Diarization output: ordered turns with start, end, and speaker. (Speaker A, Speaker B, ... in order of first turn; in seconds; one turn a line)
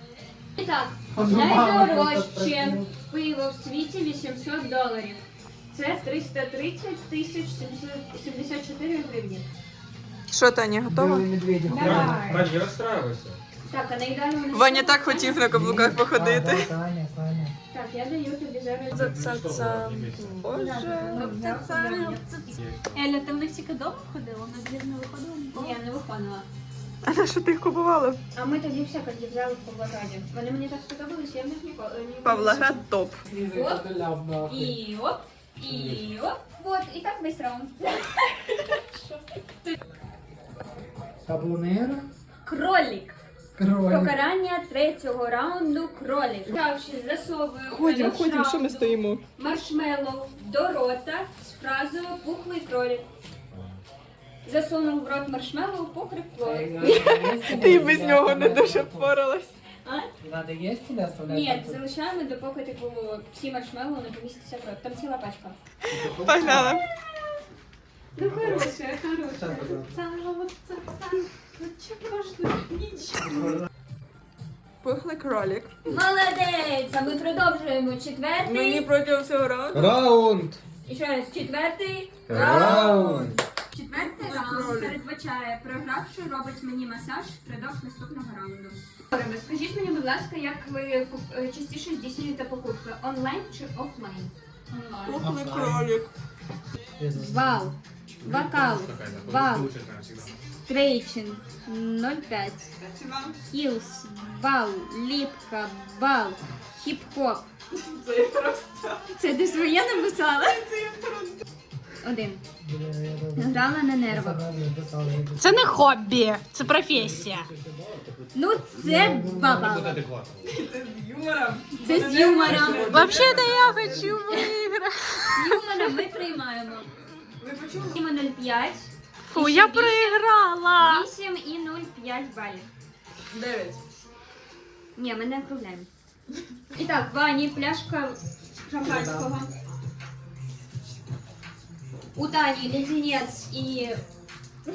Speaker A: 0.6-9.5
Speaker B: 1.1-2.9
Speaker C: 10.3-11.3
Speaker B: 10.9-12.4
Speaker A: 11.7-12.5
Speaker D: 11.7-13.4
Speaker A: 13.7-15.4
Speaker C: 14.5-16.7
Speaker B: 15.5-17.6
Speaker A: 17.7-19.1
Speaker D: 18.9-20.5
Speaker C: 18.9-21.8
Speaker E: 20.5-25.8
Speaker A: 20.8-22.2
Speaker A: 25.5-26.5
Speaker C: 27.1-28.2
Speaker A: 28.3-32.8
Speaker C: 32.2-33.2
Speaker B: 33.2-34.8
Speaker A: 33.5-33.8
Speaker A: 34.5-39.0
Speaker B: 41.2-42.1
Speaker A: 42.4-43.2
Speaker B: 43.6-44.1
Speaker A: 43.9-53.0
Speaker C: 47.7-49.2
Speaker A: 54.4-57.8
Speaker B: 56.4-59.1
Speaker C: 57.5-59.5
Speaker A: 59.8-60.1
Speaker B: 60.2-61.8
Speaker A: 61.3-65.6
Speaker B: 65.9-66.8
Speaker C: 66.0-66.8
Speaker A: 68.2-70.2
Speaker B: 68.2-68.7
Speaker B: 69.3-70.0
Speaker E: 70.0-71.0
Speaker A: 71.6-73.2
Speaker E: 71.8-73.0
Speaker C: 74.8-75.8
Speaker A: 75.9-78.9
Speaker C: 78.5-80.0
Speaker D: 79.7-80.6
Speaker A: 80.9-94.3
Speaker D: 82.3-83.4
Speaker C: 82.5-83.3
Speaker C: 84.2-85.0
Speaker C: 94.7-96.1
Speaker B: 95.2-96.0
Speaker B: 97.0-97.7
Speaker A: 97.1-99.7
Speaker D: 98.2-100.3
Speaker A: 100.7-102.7
Speaker C: 102.8-103.4
Speaker A: 103.5-107.5
Speaker C: 107.8-109.1
Speaker A: 109.2-110.7
Speaker C: 110.7-111.4
Speaker A: 112.0-112.4
Speaker B: 112.6-115.8
Speaker A: 113.4-114.5
Speaker E: 115.4-117.5
Speaker D: 116.6-118.3
Speaker A: 118.3-120.0
Speaker B: 118.8-119.8
Speaker D: 119.5-120.5
Speaker C: 120.5-124.1
Speaker A: 121.8-123.3
Speaker E: 121.8-122.2
Speaker E: 122.8-125.9
Speaker A: 125.3-126.9
Speaker C: 127.4-127.9
Speaker A: 127.9-130.2
Speaker E: 129.3-131.1
Speaker A: 130.8-132.7
Speaker C: 133.3-133.8
Speaker A: 134.9-135.9
Speaker A: 136.7-139.5
Speaker A: 142.2-144.0